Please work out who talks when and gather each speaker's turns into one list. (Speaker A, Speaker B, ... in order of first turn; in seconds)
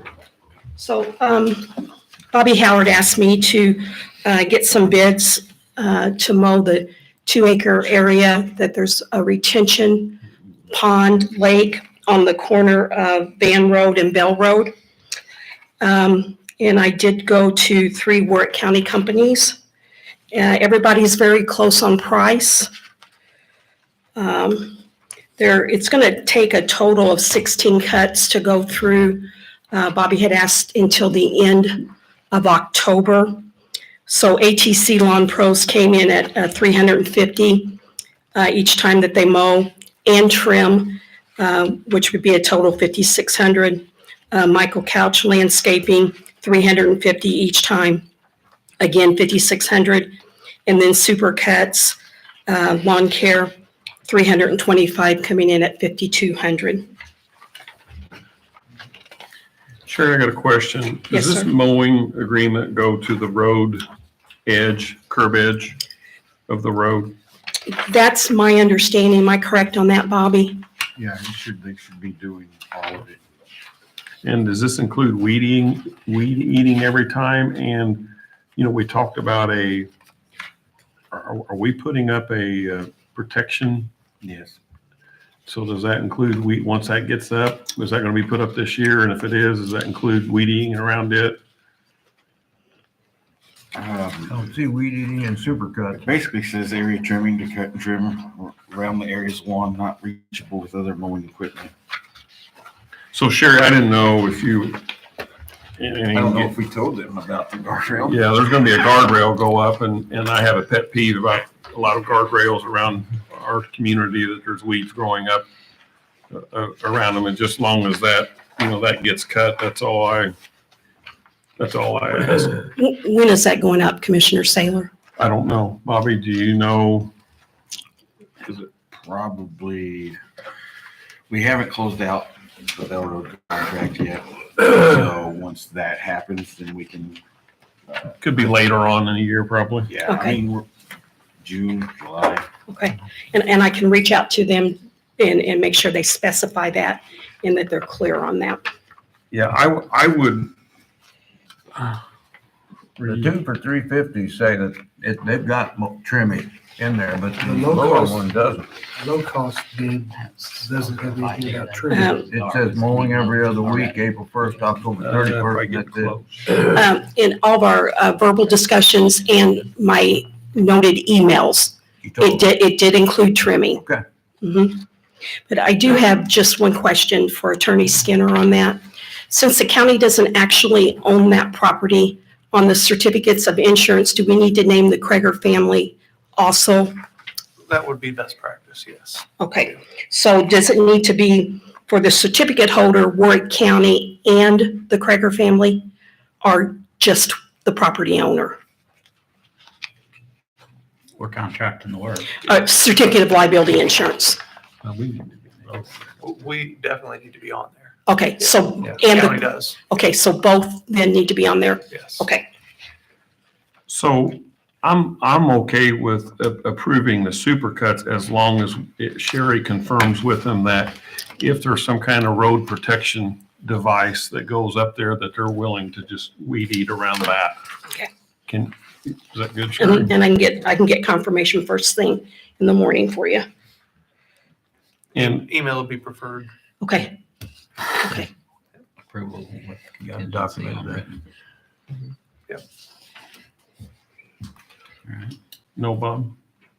Speaker A: 0.8-14.7, 15.8-19.6, 20.3-22.7, 24.1-24.8, 25.4-33.4, 34.1-37.8, 38.3-48.0, 48.8-50.1, 50.6-53.5, 54.0-56.9, 61.1-61.5, 67.7-70.6, 122.8-124.9, 140.1-140.4, 142.7-148.6, 161.9-162.2, 166.6-173.8, 174.4-174.8, 175.5-186.9, 189.4-195.9, 196.4-198.6, 202.4-204.4, 208.1-212.5, 229.8-233.5, 236.8-237.2, 238.0-238.3
Speaker B: 59.9-63.8, 64.5-65.8, 66.5-67.2, 74.2-79.9, 81.1-83.9, 85.5-91.4, 103.1-104.8, 105.8-106.5, 108.0-115.4, 116.3-120.3, 121.6-122.7, 125.2-127.1, 138.2-139.9, 149.3-150.5, 165.0-166.7, 204.8-206.0, 213.9-227.6, 228.5-230.1, 235.1-235.5, 245.8-246.3
Speaker C: 71.0-73.2, 84.2-84.6, 93.7-94.4, 95.9-101.7, 106.1-108.2, 128.9-130.2, 131.3-137.2, 139.9-140.7, 141.4-142.5
Speaker D: 94.3-96.0, 153.0-158.7, 162.2-166.2, 172.0-172.5, 240.4-241.1
Speaker E: 157.4-158.3, 158.9-162.1
Speaker F: 160.1-164.9, 201.2-202.3, 239.1-241.2, 245.1-245.3
Speaker G: 187.7-189.3, 206.2-207.9, 208.8-209.8, 211.9-212.2, 235.1-236.5